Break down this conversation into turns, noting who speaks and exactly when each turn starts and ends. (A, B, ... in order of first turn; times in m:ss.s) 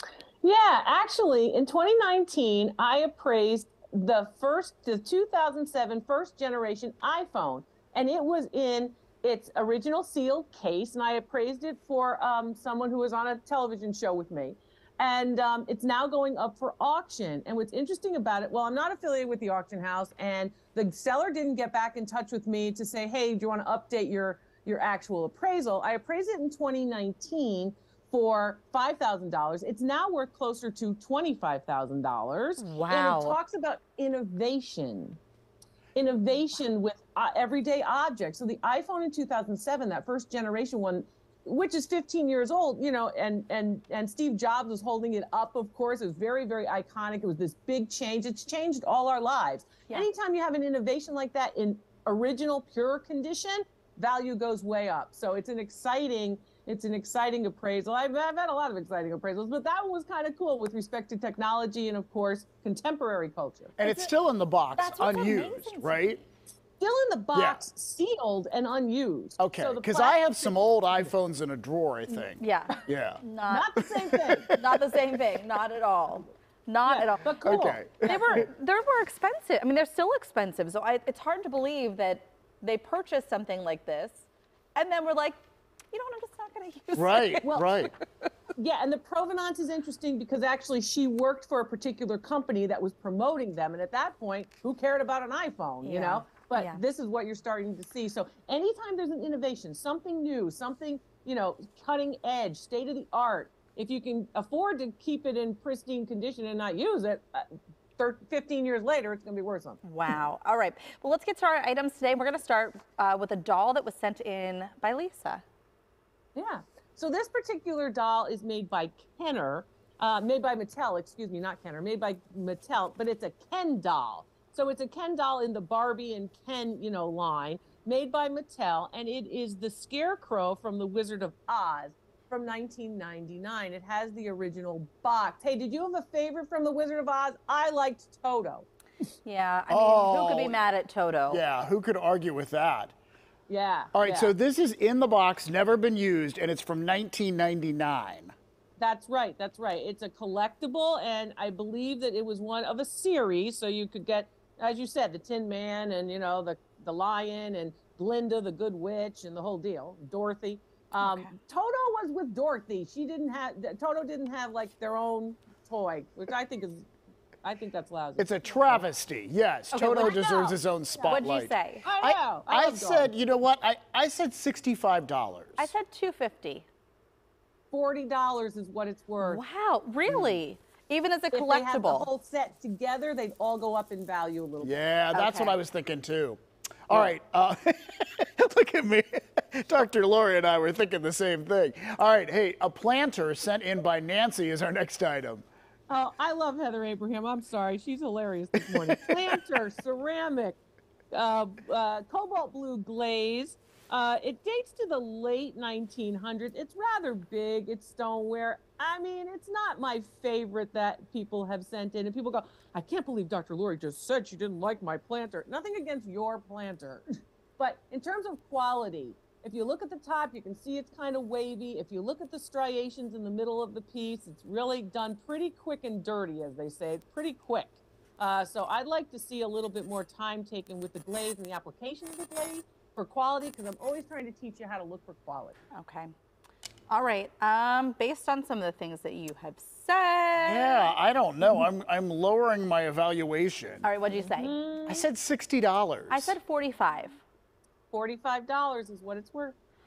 0:00.4-0:35.2 A
0:32.6-0:33.4 B
0:36.0-1:03.7 A
1:03.8-1:06.2 C
1:03.8-1:04.1 B
1:04.8-1:06.2 B
1:06.8-1:11.1 A
1:07.3-1:07.6 C
1:09.4-1:13.2 C
1:12.4-1:13.8 B
1:13.5-1:14.5 A
1:14.0-1:14.8 C
1:14.5-1:24.2 B
1:16.9-1:18.5 A
1:17.4-1:18.4 C
1:24.8-1:25.4 B
1:25.9-1:27.6 B
1:26.9-1:27.9 C
1:27.4-1:27.9 A
1:28.6-1:49.8 A
1:35.8-1:36.8 B
1:49.8-1:55.4 B
1:56.4-2:18.7 A
2:19.2-2:21.4 B
2:19.7-2:20.6 C
2:21.3-2:22.9 C
2:23.5-2:24.3 A
2:23.9-2:28.3 C
2:28.8-2:46.9 A
2:41.0-2:41.3 B
2:47.4-2:48.9 A
2:48.2-2:55.7 C
2:49.7-2:51.9 B
2:51.8-2:53.1 A
2:55.6-2:56.6 B
2:57.7-2:59.4 A
2:59.2-3:02.1 B
3:01.3-3:04.7 A
3:04.6-3:15.5 C
3:05.1-3:05.6 B
3:15.9-3:20.6 A
3:21.1-3:37.0 A
3:37.6-3:55.6 A
3:55.7-3:56.1 B
3:56.9-4:00.9 B
4:00.4-4:03.9 C
4:03.8-4:04.6 B
4:04.2-4:05.1 A
4:04.9-4:06.4 C
4:06.1-4:07.2 B
4:07.9-4:09.6 A